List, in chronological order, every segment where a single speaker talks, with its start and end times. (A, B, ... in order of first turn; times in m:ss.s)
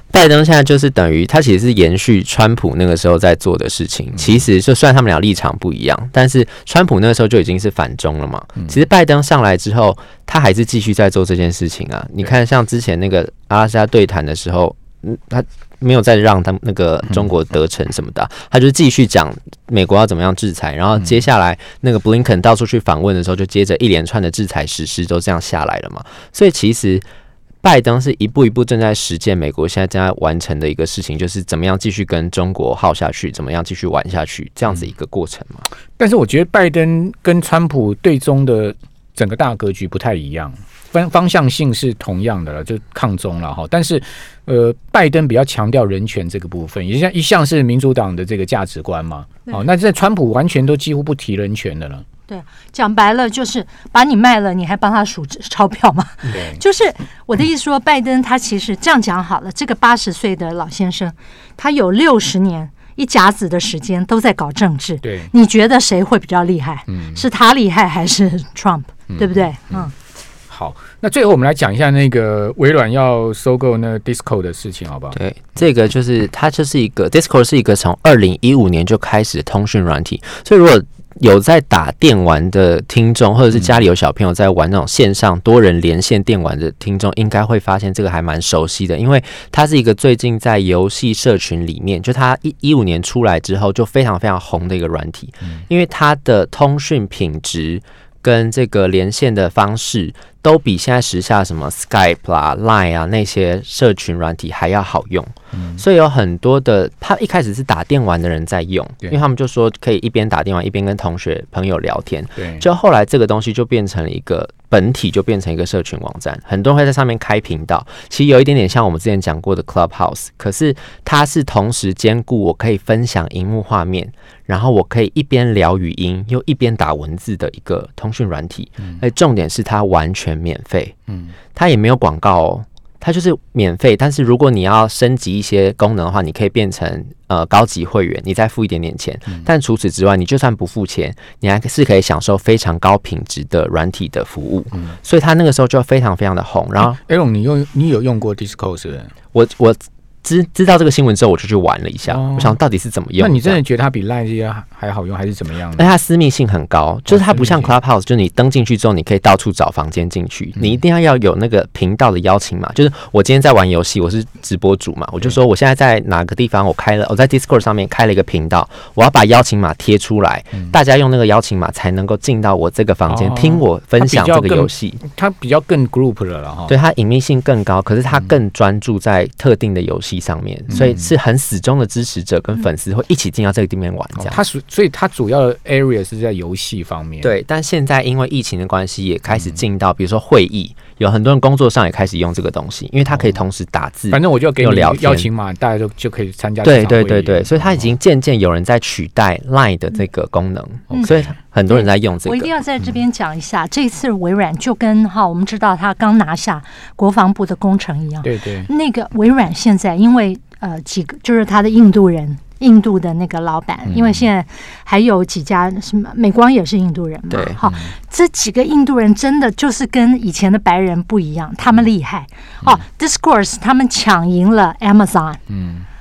0:00.1-0:27.0 A
0:27.6-0:35.7 A
0:36.0-0:52.0 B
0:52.3-1:09.9 C
0:56.3-0:56.6 B
1:05.0-1:05.3 B
1:06.9-1:07.2 B
1:09.1-1:09.8 B
1:10.5-1:15.2 B
1:15.2-2:11.0 A
1:45.5-1:45.8 B
1:52.4-1:52.6 B
2:11.6-2:27.0 A
2:26.8-2:29.1 B
2:29.3-2:33.6 A
2:32.1-2:32.6 B
2:33.2-2:35.9 B
2:35.8-2:55.0 A
2:37.1-2:37.7 B
2:53.1-2:56.7 B
2:56.7-3:04.4 A
3:00.7-3:01.1 B
3:04.2-3:07.3 B
3:07.2-3:15.3 A
3:14.1-3:17.9 B
3:16.6-3:22.5 A
3:21.7-3:45.4 C
3:28.2-3:28.7 B
3:33.9-3:34.2 B
3:37.3-3:37.6 A
3:37.6-3:37.9 B
3:45.5-3:45.9 B